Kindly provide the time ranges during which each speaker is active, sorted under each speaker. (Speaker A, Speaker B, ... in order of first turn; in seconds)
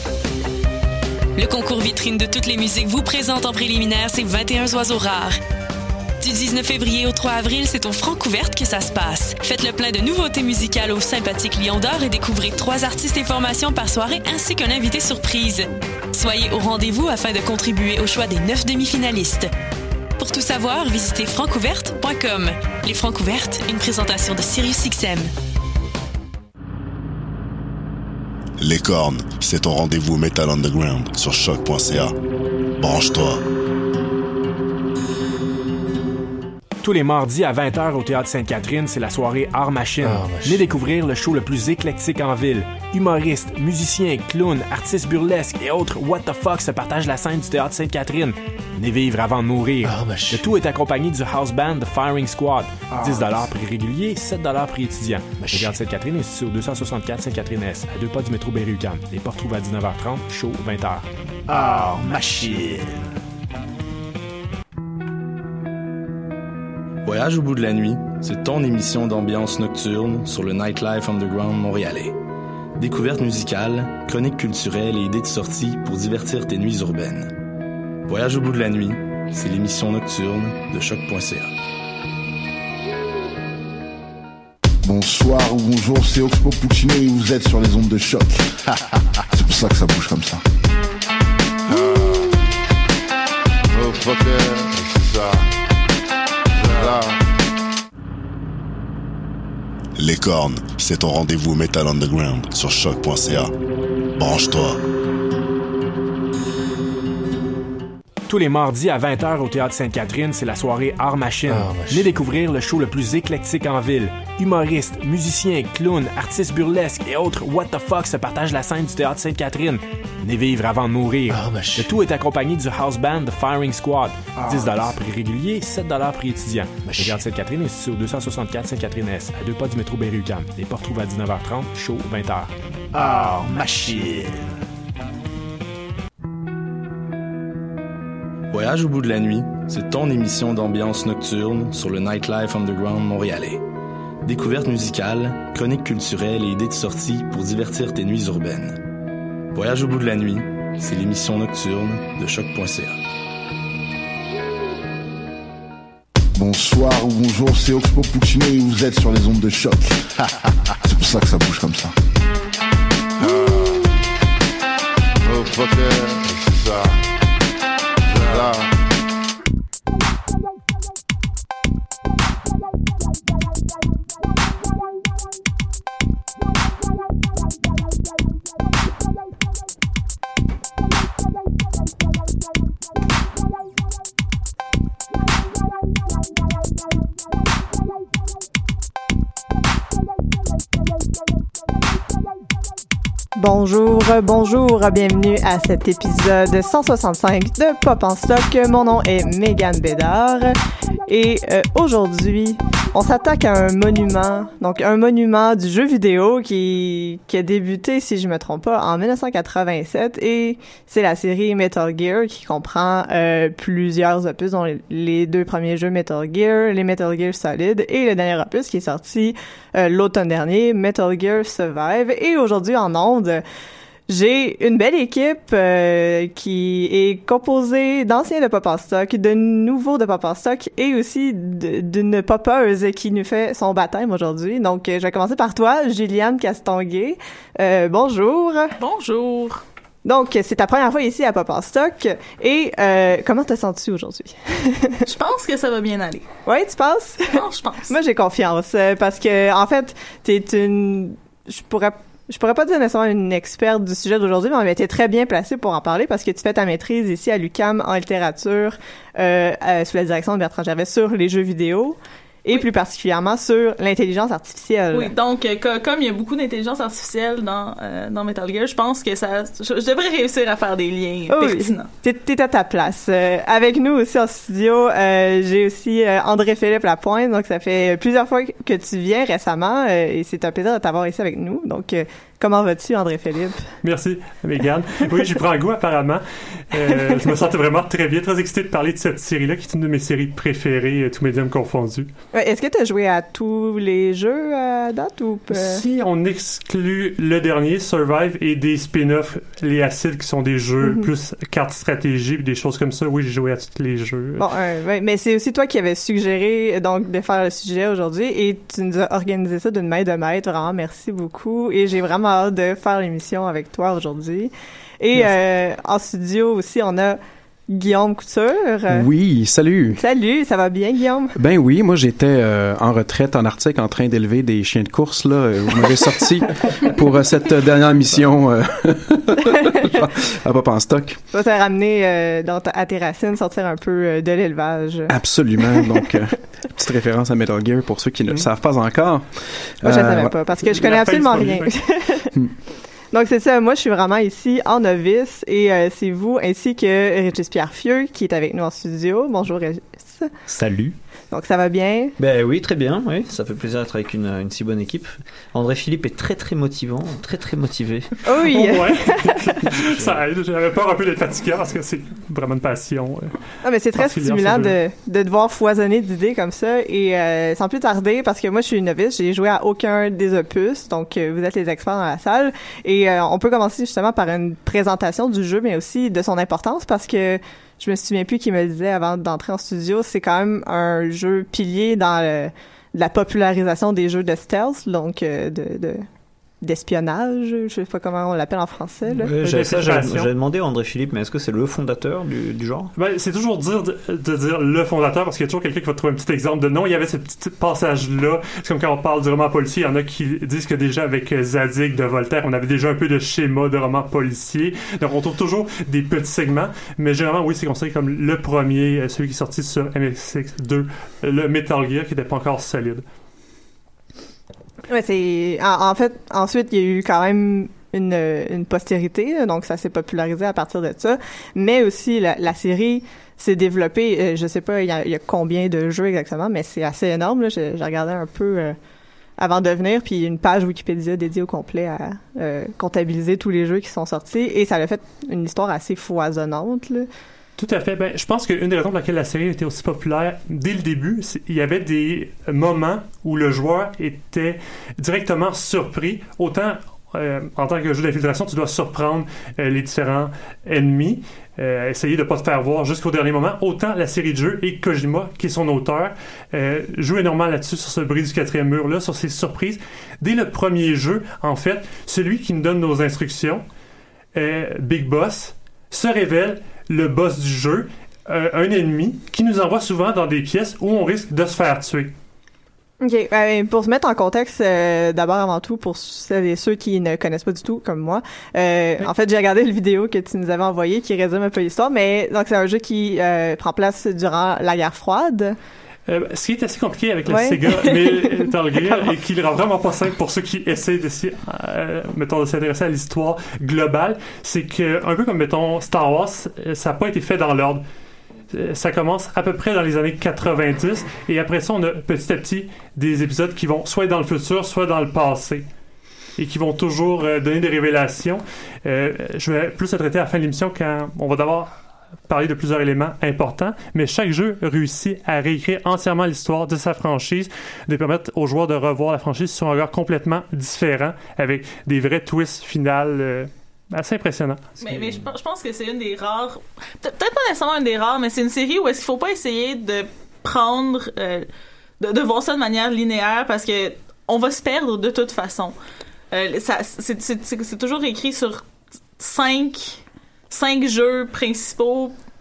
Speaker A: 1.4-5.4, 6.2-19.5, 20.2-25.3
Speaker B: 28.6-32.1, 32.8-33.4, 100.0-103.5, 104.2-104.8
Speaker C: 36.8-61.0, 108.3-132.5
Speaker D: 40.0-40.6, 49.8-50.5, 53.0-53.3, 55.4-55.7, 61.5-63.0, 111.5-112.1, 121.3-122.0, 124.4-124.9, 126.9-127.2, 132.9-134.6
Speaker E: 67.0-72.2, 72.8-77.3, 78.1-81.5, 138.5-143.6, 144.2-148.8, 149.5-153.0
Speaker F: 84.8-88.5, 89.3-90.4, 156.3-160.0, 160.8-161.9
Speaker G: 91.7-92.3, 93.7-95.5, 96.5-97.2, 163.2-163.9, 165.2-167.0, 168.1-168.7
Speaker H: 193.3-223.4, 224.1-238.7, 240.1-245.0, 246.5-265.1, 271.3-283.6, 286.8-287.2, 292.3-295.8, 304.4-317.2, 317.7-319.1, 320.0-321.4, 331.3-335.9, 339.8-342.3, 343.1-350.3, 351.3-352.1, 358.2-359.5, 363.6-386.1, 386.6-389.3, 414.9-428.8, 429.4-437.1, 473.0-485.6, 487.3-489.1
Speaker I: 238.8-239.6, 245.1-246.3, 247.3-247.9, 264.9-271.9, 524.8-531.5, 532.0-535.8, 536.3-538.6, 539.2-542.1
Speaker J: 283.8-292.1, 295.5-304.4, 340.6-341.7, 358.5-363.3, 363.9-364.8, 389.4-390.3, 393.0-413.0, 437.6-463.6, 464.4-472.1, 486.1-497.8, 498.5-505.7, 506.4-511.7, 512.3-524.7
Speaker K: 318.9-320.0, 321.4-331.2, 335.1-340.4
Speaker L: 350.5-351.0, 352.2-358.1, 389.1-392.9